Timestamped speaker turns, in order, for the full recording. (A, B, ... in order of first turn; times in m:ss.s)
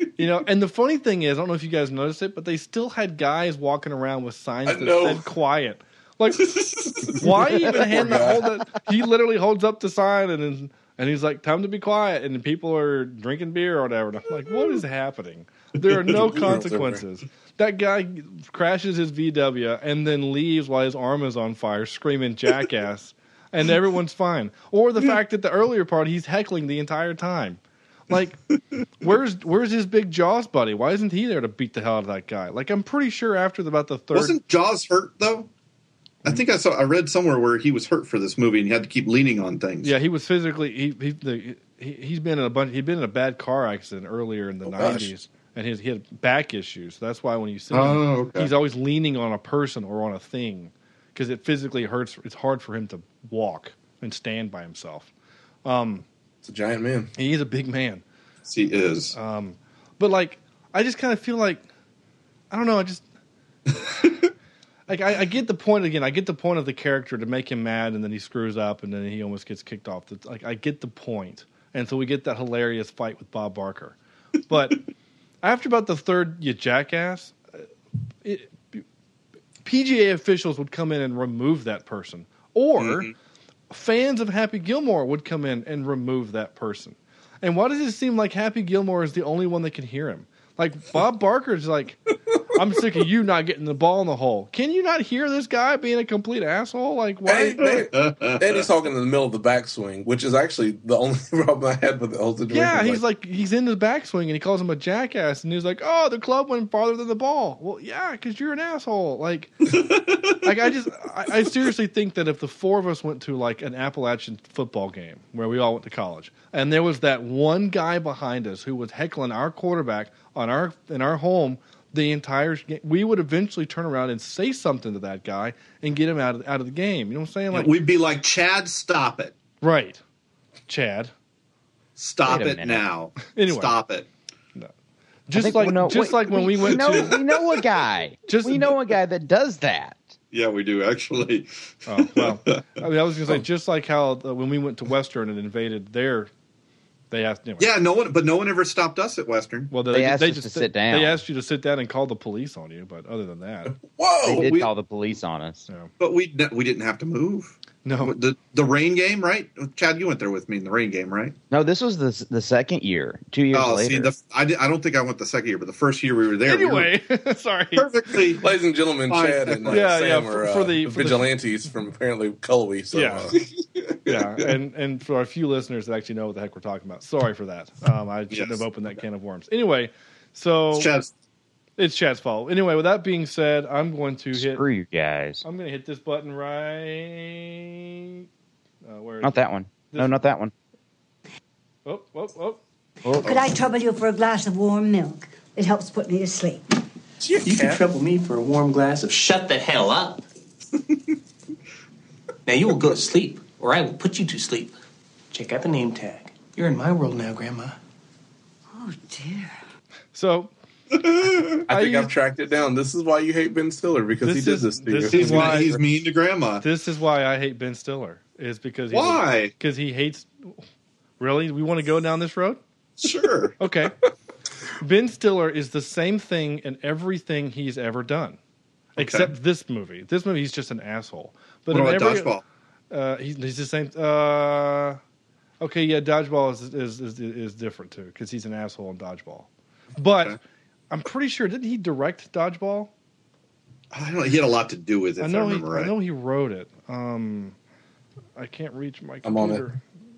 0:00.2-0:28.4 A
0:04.7-0:05.3 B
0:07.0-0:08.5 B
0:15.8-0:17.0 B
0:29.0-0:34.4 A
0:34.1-0:35.5 C
0:36.2-0:39.9 C
0:39.8-0:55.1 A
0:44.6-0:45.1 B
0:47.7-0:48.5 C
0:55.6-0:56.0 A
0:56.4-0:57.1 B
0:57.2-0:58.0 A
0:58.5-0:59.2 C
0:59.1-1:01.6 A
1:02.5-1:03.0 A
1:04.9-1:14.0 A
1:14.5-1:14.8 A
1:15.4-1:17.4 A
1:18.2-1:18.8 A
1:19.6-1:23.1 A
1:22.8-1:23.1 C
1:23.7-1:37.7 A
1:37.2-1:43.0 B
1:37.7-1:38.5 C
1:42.5-1:49.7 A
1:49.7-1:50.4 C
1:50.4-2:07.8 A
2:07.5-2:09.3 C
2:09.6-2:10.0 A
2:10.7-2:11.1 A
2:12.0-2:14.1 C
2:12.3-2:12.9 D
2:13.3-2:13.7 A
2:15.3-2:17.2 A
2:15.3-2:20.1 D
2:18.3-2:18.8 A
2:20.3-2:21.5 C
2:21.9-2:26.3 A
2:22.1-2:22.6 C
2:27.1-2:27.7 A
2:27.6-2:29.7 C
2:29.7-2:33.7 A
2:29.9-2:31.2 D
2:33.7-2:34.5 B
2:34.2-2:34.7 C
2:34.4-2:35.7 D
2:36.0-2:41.4 C
2:37.8-2:38.1 A
2:41.5-2:44.1 D
2:43.5-2:46.9 C
2:46.5-2:47.9 A
2:47.8-2:48.5 C
2:48.4-2:53.4 B
2:49.1-2:49.9 C
2:49.7-2:51.4 A
2:52.9-2:53.4 A
2:54.1-3:00.9 A
2:58.3-2:58.6 C
3:00.7-3:01.1 C
3:01.8-3:04.6 A
3:04.4-3:05.4 D
3:05.4-3:08.2 A
3:08.8-3:10.2 A
3:09.2-3:10.5 D
3:11.9-3:12.6 A
3:13.1-3:16.6 E
3:13.2-3:13.6 C
3:17.2-3:17.7 B
3:17.3-3:20.2 F
3:22.5-3:24.8 F
3:25.3-3:27.8 F
3:28.7-3:29.6 E
3:30.1-3:30.5 A
3:30.9-3:31.6 C
3:31.7-3:32.1 A
3:31.7-3:35.8 B
3:34.2-3:35.8 A
3:35.1-3:36.6 C
3:36.6-3:40.5 A
3:38.9-3:39.5 C
3:41.2-3:42.6 A
3:43.0-3:43.6 C
3:43.6-3:43.9 A
3:44.8-3:48.4 A
3:49.0-3:52.3 A
3:49.0-3:49.3 C
3:51.7-3:52.4 C
3:52.9-3:55.0 A
3:55.6-4:00.4 A
4:00.0-4:00.4 C
4:00.9-4:02.9 A
4:03.9-4:05.9 C
4:05.2-4:07.6 A
4:08.4-4:09.8 A
4:09.2-4:09.6 B